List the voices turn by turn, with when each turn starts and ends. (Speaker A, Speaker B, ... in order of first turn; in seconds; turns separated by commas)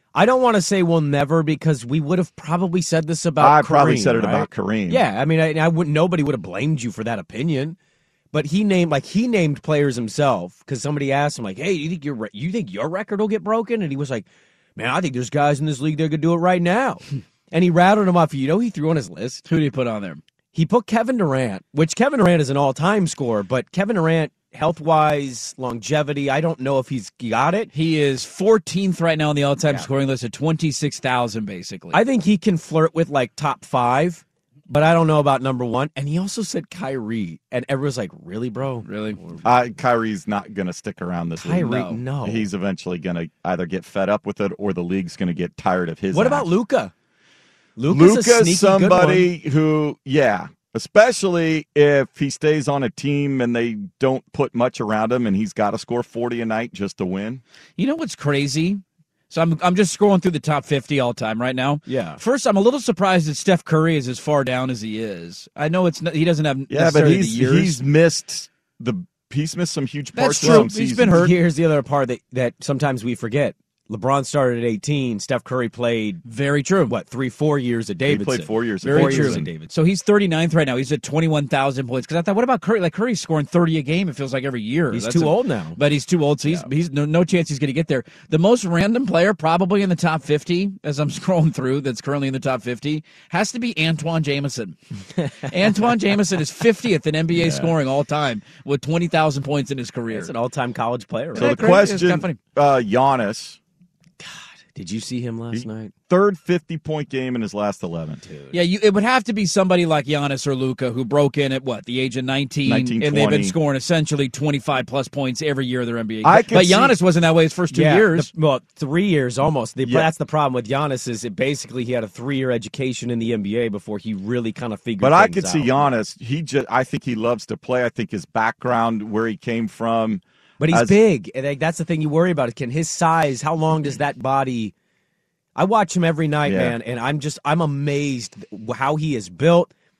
Speaker A: 0.1-7.8, Speaker B: 3.4-5.0, Speaker A: 8.3-19.4, Speaker C: 19.4-20.2, Speaker A: 20.5-27.7, Speaker C: 27.7-32.0, Speaker A: 31.9-39.5, Speaker C: 38.8-39.2, Speaker B: 39.4-46.5, Speaker A: 41.4-42.5, Speaker C: 41.6-42.0, Speaker A: 46.1-46.9, Speaker A: 47.8-49.3, Speaker B: 47.9-57.4, Speaker C: 57.8-67.8, Speaker A: 61.9-62.2, Speaker B: 66.7-71.3, Speaker C: 70.1-71.3, Speaker A: 70.4-76.2, Speaker C: 76.2-76.9, Speaker A: 76.9-79.7, Speaker B: 78.0-79.5, Speaker C: 78.8-94.8, Speaker A: 84.9-85.8, Speaker A: 95.2-95.8, Speaker C: 95.5-100.3, Speaker B: 97.3-97.7, Speaker A: 100.1-101.8, Speaker C: 101.3-102.4, Speaker B: 101.3-103.6, Speaker A: 104.2-105.9, Speaker B: 105.5-108.2, Speaker A: 108.2-108.5, Speaker C: 108.5-118.3, Speaker B: 112.7-113.5, Speaker B: 116.2-116.9, Speaker A: 117.7-125.9, Speaker B: 119.8-120.1, Speaker B: 125.0-130.9, Speaker A: 130.6-134.7, Speaker A: 135.6-139.7, Speaker B: 136.4-136.8